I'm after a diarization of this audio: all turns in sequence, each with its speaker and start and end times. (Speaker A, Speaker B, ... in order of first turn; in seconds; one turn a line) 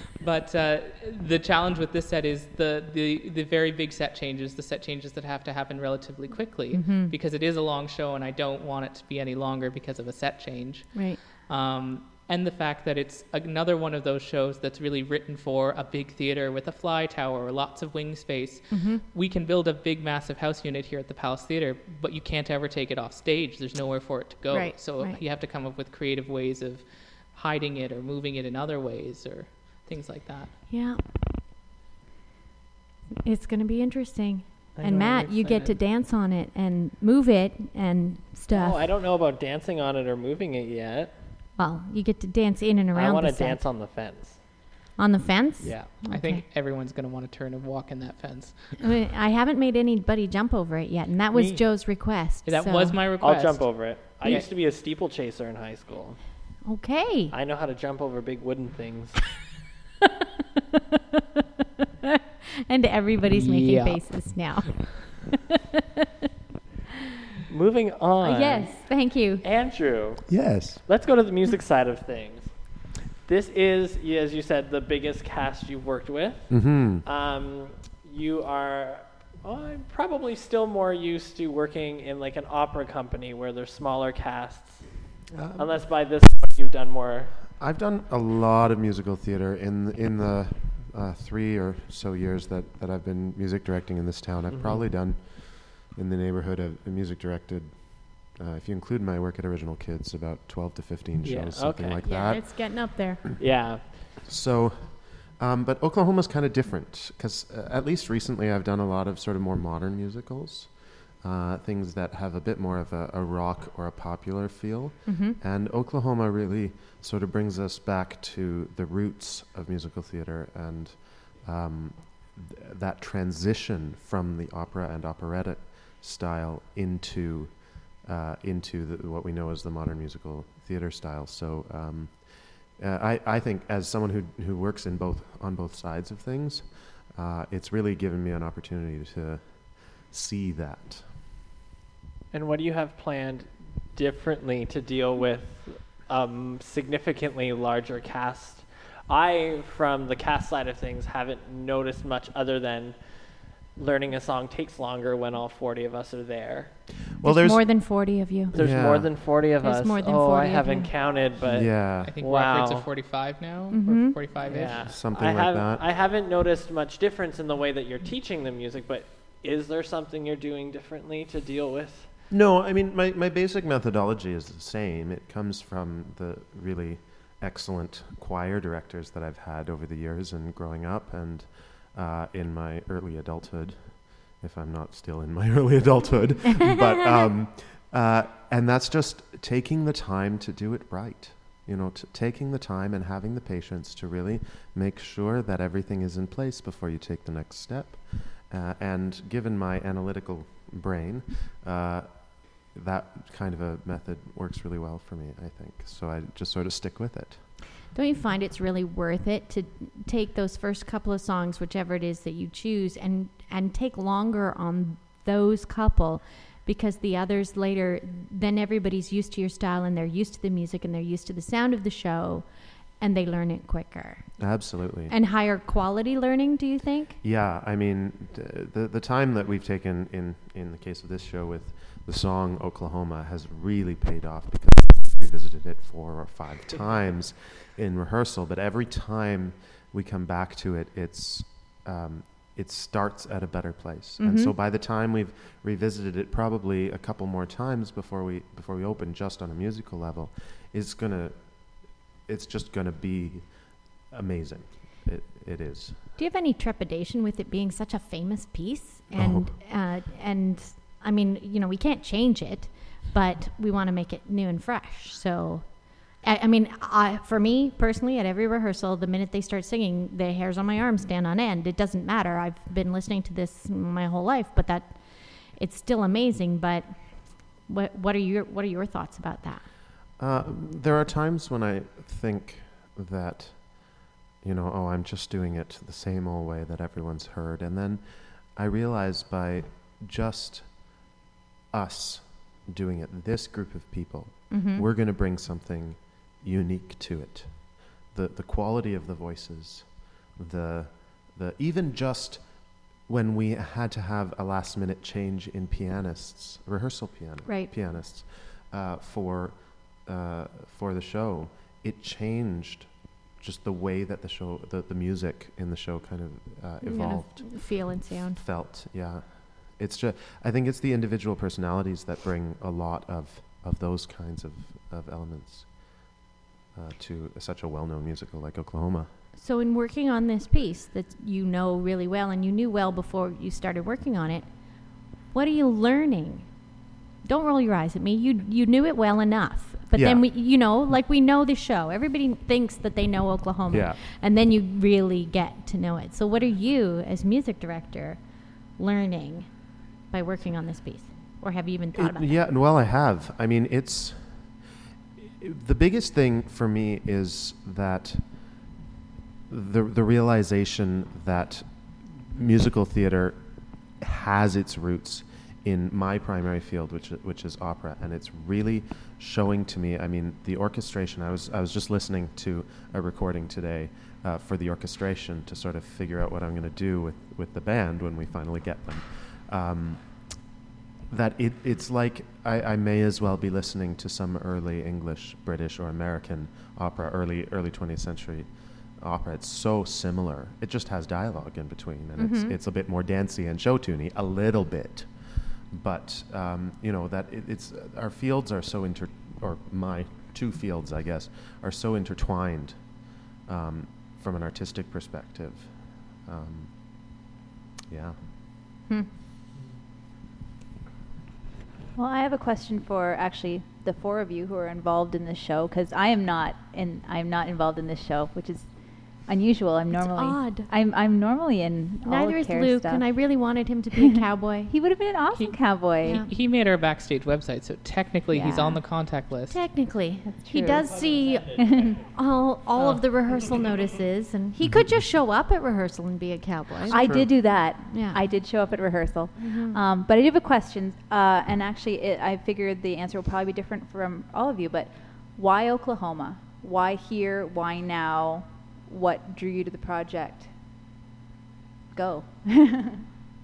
Speaker A: 0.2-30.6
Speaker B: 6.7-7.2
Speaker B: 10.9-11.2
Speaker B: 18.7-19.0
Speaker B: 24.5-25.2
Speaker B: 30.7-31.2
Speaker B: 33.2-38.9
Speaker C: 34.8-35.7
Speaker C: 38.5-41.2
Speaker B: 41.6-43.7
Speaker C: 42.9-44.4
Speaker B: 45.0-46.4
Speaker C: 45.6-45.9
Speaker A: 46.1-48.8
Speaker B: 48.8-53.0
Speaker C: 51.3-51.6
Speaker A: 52.4-54.5
Speaker C: 53.2-56.2
Speaker B: 56.6-57.3
Speaker C: 57.3-59.2
Speaker B: 62.7-65.3
Speaker A: 63.3-64.7
Speaker C: 67.5-87.4
Speaker B: 68.2-69.4
Speaker D: 70.3-70.9
Speaker D: 76.5-77.0
Speaker D: 85.3-86.2
Speaker D: 87.6-103.1
Speaker C: 94.5-94.9
Speaker C: 101.2-102.0
Speaker B: 102.0-103.2
Speaker C: 103.4-104.0
Speaker D: 104.2-141.1
Speaker B: 115.0-115.4
Speaker C: 142.3-157.1
Speaker D: 157.2-159.4
Speaker B: 157.2-158.5
Speaker C: 158.5-162.9
Speaker B: 159.6-160.9
Speaker D: 161.4-162.1
Speaker A: 162.0-164.8
Speaker B: 163.7-164.2
Speaker C: 164.4-172.1
Speaker D: 164.5-165.8
Speaker D: 172.3-207.5
Speaker B: 207.9-227.2
Speaker D: 224.4-225.1
Speaker D: 227.2-256.0
Speaker B: 244.2-244.5
Speaker B: 256.2-279.7
Speaker D: 259.1-259.5
Speaker D: 280.1-291.1
Speaker D: 291.7-326.1
Speaker B: 294.5-294.9
Speaker B: 307.4-307.7
Speaker B: 316.8-318.4
Speaker D: 326.7-329.1
Speaker B: 329.3-352.3
Speaker D: 339.9-340.2
Speaker D: 343.7-344.0
Speaker D: 351.9-358.7
Speaker D: 359.5-380.5
Speaker D: 381.1-407.2
Speaker B: 392.2-392.5
Speaker D: 407.9-408.2
Speaker E: 411.9-423.2
Speaker B: 419.9-420.7
Speaker B: 422.0-424.7
Speaker E: 423.9-426.2
Speaker A: 425.3-429.6
Speaker B: 426.0-426.3
Speaker E: 428.3-428.8
Speaker B: 429.4-438.2
Speaker E: 430.2-430.9
Speaker E: 431.4-432.0
Speaker A: 432.8-433.0
Speaker D: 434.6-434.9
Speaker E: 436.9-450.6
Speaker B: 439.4-439.8
Speaker E: 451.9-453.0